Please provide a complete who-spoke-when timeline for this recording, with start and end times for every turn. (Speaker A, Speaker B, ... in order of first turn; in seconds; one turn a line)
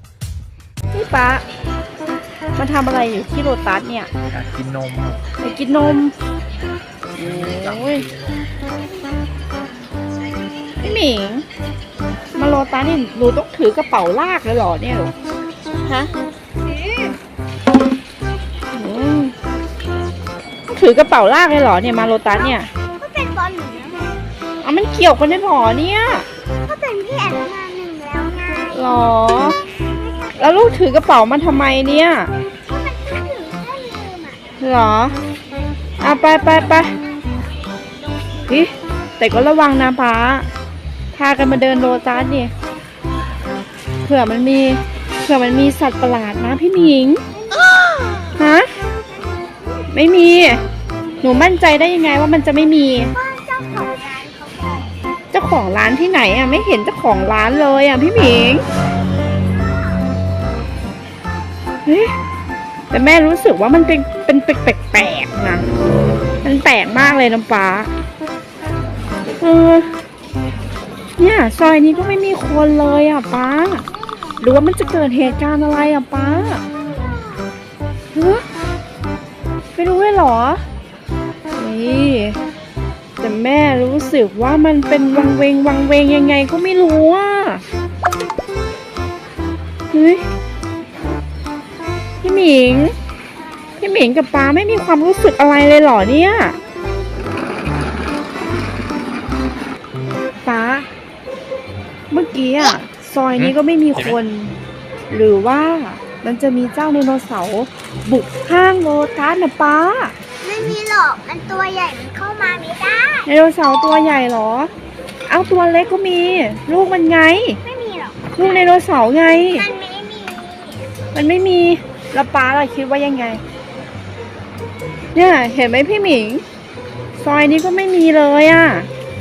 Speaker A: 0.9-1.4
Speaker A: 2.5-4.1
Speaker B: 4.3-5.2
Speaker A: 5.4-6.1
Speaker B: 7.1-8.4
Speaker A: 7.1-8.0
Speaker A: 10.8-11.4
Speaker A: 12.3-15.1
Speaker C: 16.8-17.1
Speaker A: 18.7-19.3
Speaker A: 20.7-22.7
Speaker C: 22.3-24.2
Speaker A: 24.6-26.2
Speaker C: 26.6-29.1
Speaker A: 28.7-29.6
Speaker C: 30.0-30.7
Speaker A: 30.4-32.3
Speaker C: 32.7-34.4
Speaker A: 34.6-35.1
Speaker A: 36.0-36.9
Speaker C: 36.1-36.9
Speaker A: 38.5-40.5
Speaker A: 41.1-42.5
Speaker A: 44.0-47.2
Speaker C: 47.4-48.4
Speaker A: 48.4-48.7
Speaker A: 49.9-50.6
Speaker A: 51.2-53.1
Speaker C: 53.1-54.9
Speaker A: 55.3-58.6
Speaker C: 59.6-60.0
Speaker A: 61.9-62.1
Speaker A: 62.9-65.6
Speaker A: 66.4-67.9
Speaker A: 69.4-69.9
Speaker A: 71.2-73.8
Speaker A: 74.4-76.6
Speaker C: 77.0-77.5
Speaker A: 78.1-78.4
Speaker A: 79.7-80.6
Speaker A: 81.5-82.4
Speaker A: 83.2-87.6
Speaker A: 89.9-90.2
Speaker A: 92.2-92.9
Speaker A: 93.8-96.6
Speaker A: 100.4-100.9
Speaker A: 102.1-104.5
Speaker B: 103.3-104.2
Speaker A: 105.1-110.1
Speaker C: 110.4-113.3
Speaker A: 113.3-114.7
Speaker A: 115.2-117.6
Speaker C: 117.6-118.7
Speaker A: 118.3-119.6
Speaker C: 119.5-120.8
Speaker A: 121.1-123.4
Speaker A: 125.1-126.4
Speaker A: 127.2-128.9